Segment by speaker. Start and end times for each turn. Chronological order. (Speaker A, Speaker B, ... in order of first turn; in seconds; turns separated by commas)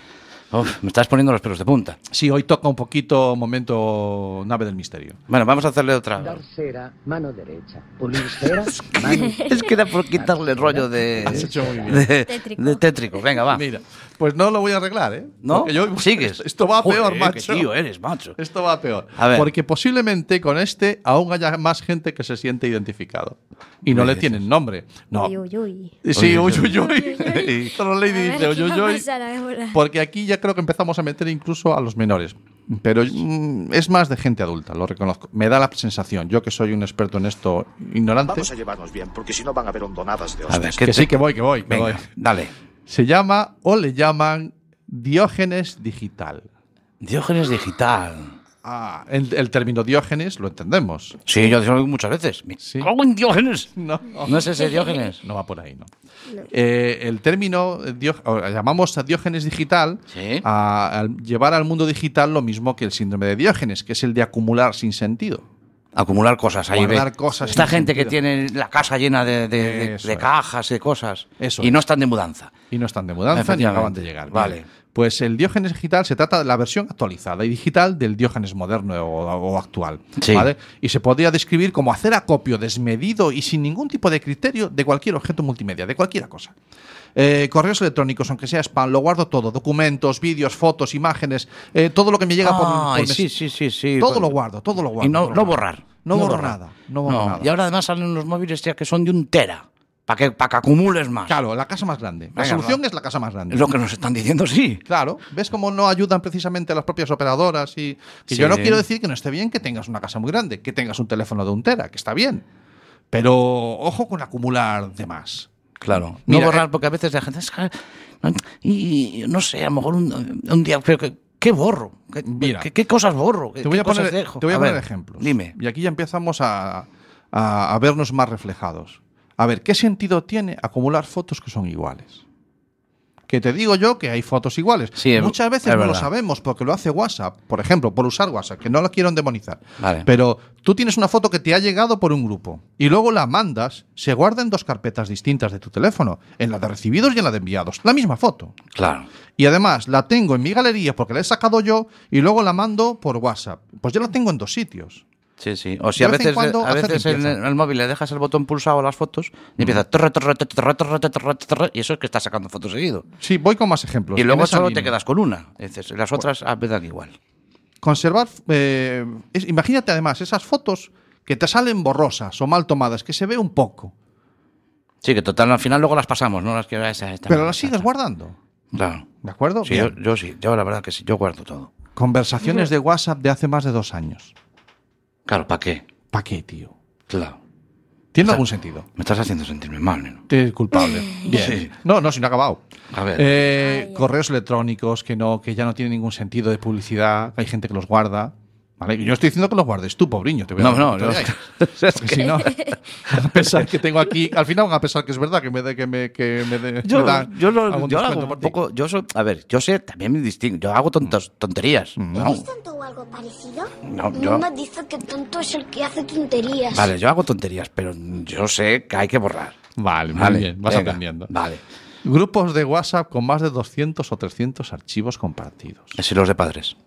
Speaker A: 0.5-2.0, Speaker B: 2.1-5.2, Speaker A: 5.3-6.4, Speaker C: 6.2-12.0, Speaker A: 8.7-13.6, Speaker B: 11.2-12.1, Speaker D: 12.1-12.8, Speaker B: 13.5-17.7, Speaker A: 15.4-18.4, Speaker B: 18.4-25.4, Speaker A: 19.2-19.5, Speaker A: 23.9-24.4, Speaker D: 25.1-26.0, Speaker B: 26.0-29.1, Speaker A: 26.1-27.7, Speaker D: 26.7-27.5, Speaker D: 28.1-29.8, Speaker B: 29.7-38.5, Speaker E: 38.3-40.8, Speaker A: 40.5-42.5, Speaker B: 40.8-42.1, Speaker B: 42.9-46.5, Speaker A: 47.0-48.3, Speaker B: 48.6-51.2, Speaker A: 51.3-53.7, Speaker B: 52.6-52.9, Speaker B: 53.8-55.9, Speaker A: 54.2-55.2, Speaker B: 56.5-65.5, Speaker A: 60.1-60.5, Speaker A: 66.0-72.5, Speaker B: 66.7-68.2, Speaker B: 69.6-70.3, Speaker B: 71.4-71.8, Speaker B: 72.7-86.5, Speaker A: 73.3-74.7, Speaker A: 80.2-80.5, Speaker B: 87.2-93.3, Speaker A: 92.4-94.4, Speaker B: 94.0-97.5, Speaker A: 95.0-101.4, Speaker B: 101.3-103.7, Speaker A: 102.3-102.8, Speaker A: 103.5-104.8, Speaker B: 104.9-112.4, Speaker A: 108.3-108.8, Speaker B: 113.1-115.5, Speaker A: 115.8-125.5, Speaker B: 116.2-116.7, Speaker B: 122.2-122.7, Speaker B: 123.6-132.2, Speaker B: 133.3-148.6, Speaker A: 135.0-136.1, Speaker A: 139.8-140.1, Speaker A: 148.8-149.1, Speaker B: 149.4-155.0, Speaker A: 155.4-163.1, Speaker B: 156.0-157.4, Speaker B: 163.2-164.9, Speaker A: 164.2-167.2, Speaker B: 167.8-173.9, Speaker A: 175.0-177.9, Speaker B: 177.3-178.4, Speaker A: 178.7-179.1, Speaker B: 179.2-179.9, Speaker A: 179.7-181.7, Speaker B: 182.0-184.3, Speaker A: 185.3-185.8, Speaker B: 186.1-186.7, Speaker A: 187.1-187.4, Speaker B: 188.1-188.9, Speaker A: 189.0-190.2, Speaker B: 190.3-192.6, Speaker A: 191.3-191.7, Speaker A: 192.9-193.3, Speaker B: 193.1-208.6, Speaker D: 193.6-194.1, Speaker A: 200.6-203.6, Speaker A: 206.8-212.4, Speaker B: 212.0-212.4, Speaker F: 212.2-216.9, Speaker A: 213.8-214.4, Speaker A: 216.7-219.6, Speaker B: 219.8-221.3, Speaker A: 220.1-221.6, Speaker B: 222.0-226.0, Speaker A: 226.0-226.8